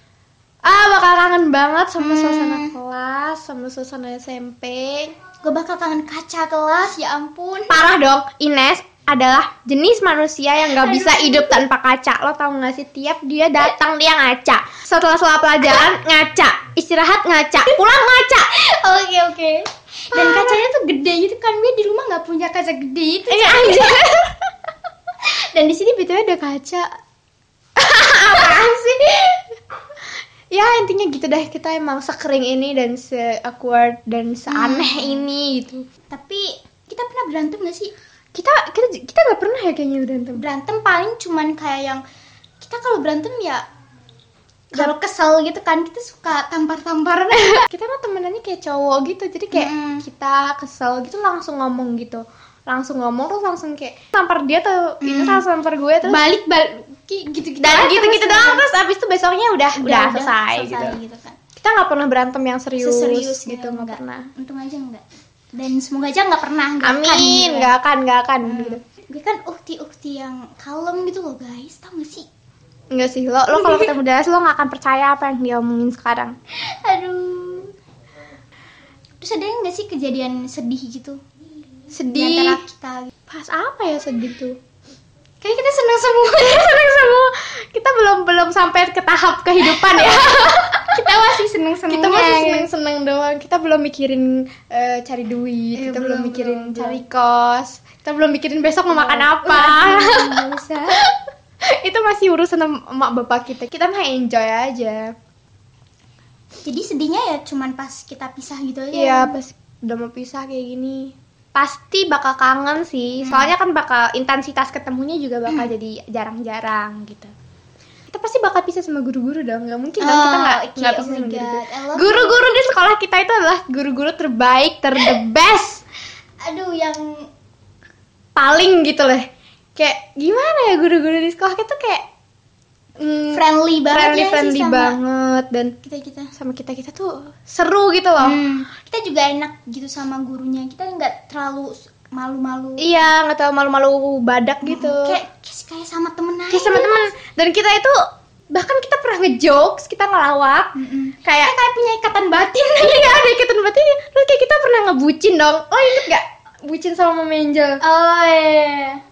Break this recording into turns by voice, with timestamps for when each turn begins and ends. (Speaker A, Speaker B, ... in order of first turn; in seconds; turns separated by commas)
Speaker A: 0.7-5.1, Speaker B: 2.0-2.8, Speaker B: 5.4-7.8, Speaker A: 7.7-18.5, Speaker B: 10.6-11.6, Speaker B: 18.5-24.0, Speaker A: 20.1-20.6, Speaker A: 23.3-24.4, Speaker B: 25.2-26.9, Speaker A: 27.8-29.4, Speaker B: 28.3-28.8, Speaker A: 30.5-35.9, Speaker B: 34.5-35.2, Speaker B: 36.1-37.9, Speaker A: 38.4-40.5, Speaker B: 40.4-42.0, Speaker B: 42.6-43.6, Speaker B: 44.7-47.7, Speaker A: 47.4-56.2, Speaker B: 49.5-50.0, Speaker B: 55.0-55.4, Speaker B: 56.0-58.7, Speaker A: 57.6-61.0, Speaker B: 59.8-61.4, Speaker A: 61.6-64.3, Speaker B: 62.8-65.0, Speaker B: 65.5-67.7, Speaker A: 66.8-68.8, Speaker B: 68.5-72.3, Speaker A: 72.9-76.4, Speaker B: 73.5-73.9, Speaker B: 76.6-77.7, Speaker B: 79.2-81.2, Speaker A: 81.9-82.6, Speaker B: 82.1-83.1, Speaker A: 83.3-84.6, Speaker B: 85.4-86.8, Speaker A: 86.4-91.0, Speaker B: 89.7-92.7, Speaker A: 91.9-100.4, Speaker B: 95.8-97.0, Speaker B: 98.9-101.0, Speaker A: 101.7-105.1, Speaker B: 106.7-109.4, Speaker A: 108.9-117.3, Speaker B: 113.2-113.5, Speaker A: 118.1-125.8, Speaker B: 120.0-122.4, Speaker B: 126.4-127.3, Speaker A: 128.4-132.1, Speaker A: 133.0-135.8, Speaker B: 133.3-135.0, Speaker B: 135.8-136.3, Speaker A: 136.3-138.4, Speaker B: 138.2-142.9, Speaker A: 142.8-145.2, Speaker B: 144.6-147.1, Speaker A: 146.5-148.0, Speaker A: 148.5-151.5, Speaker B: 150.8-153.2, Speaker A: 152.8-157.8, Speaker B: 157.8-159.0